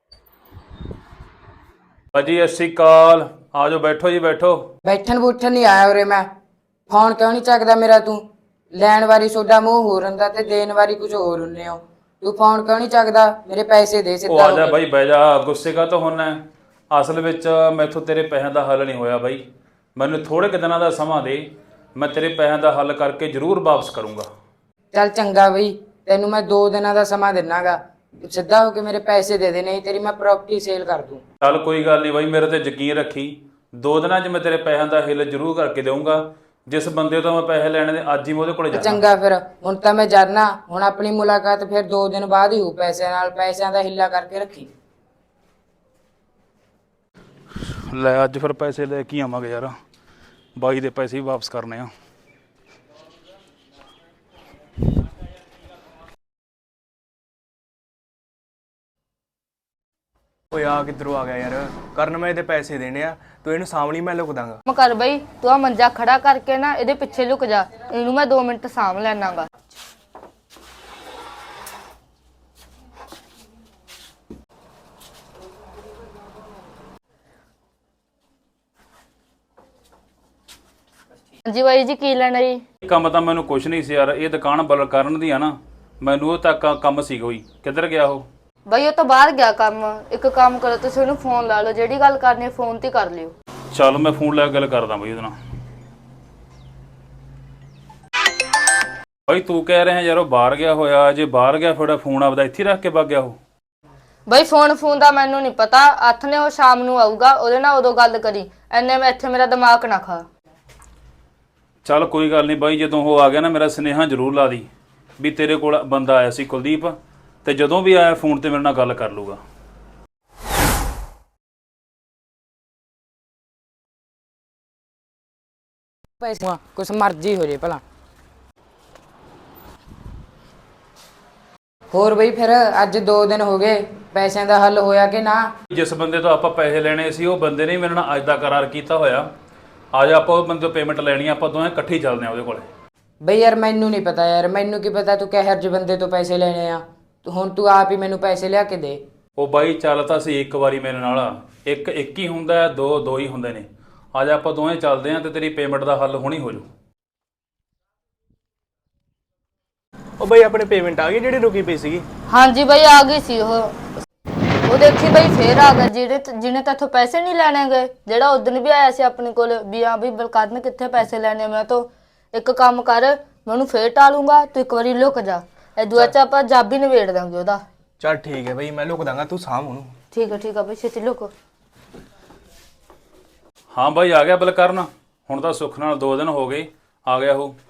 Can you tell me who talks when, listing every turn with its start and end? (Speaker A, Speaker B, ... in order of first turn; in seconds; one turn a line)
Speaker A: 2.1-4.7
Speaker B: 4.8-6.3
Speaker B: 6.9-14.8
Speaker A: 14.3-16.4
Speaker A: 16.9-24.3
Speaker B: 24.9-31.2
Speaker A: 31.4-39.0
Speaker B: 38.7-44.7
Speaker A: 47.6-49.8
Speaker A: 50.6-51.9
Speaker C: 60.5-64.6
Speaker D: 64.7-69.5
Speaker D: 81.5-82.6
Speaker A: 82.8-88.3
Speaker D: 88.7-93.3
Speaker A: 93.7-95.3
Speaker A: 99.3-103.4
Speaker D: 104.3-110.3
Speaker A: 111.8-114.7
Speaker A: 115.2-119.4
Speaker B: 126.2-127.8
Speaker B: 131.9-135.5
Speaker A: 135.7-139.3
Speaker A: 139.9-142.7
Speaker B: 143.2-149.0
Speaker A: 149.4-156.7
Speaker C: 160.2-162.1
Speaker D: 162.3-163.8
Speaker D: 164.7-177.6
Speaker C: 178.0-179.9
Speaker D: 180.1-181.3
Speaker A: 183.7-187.6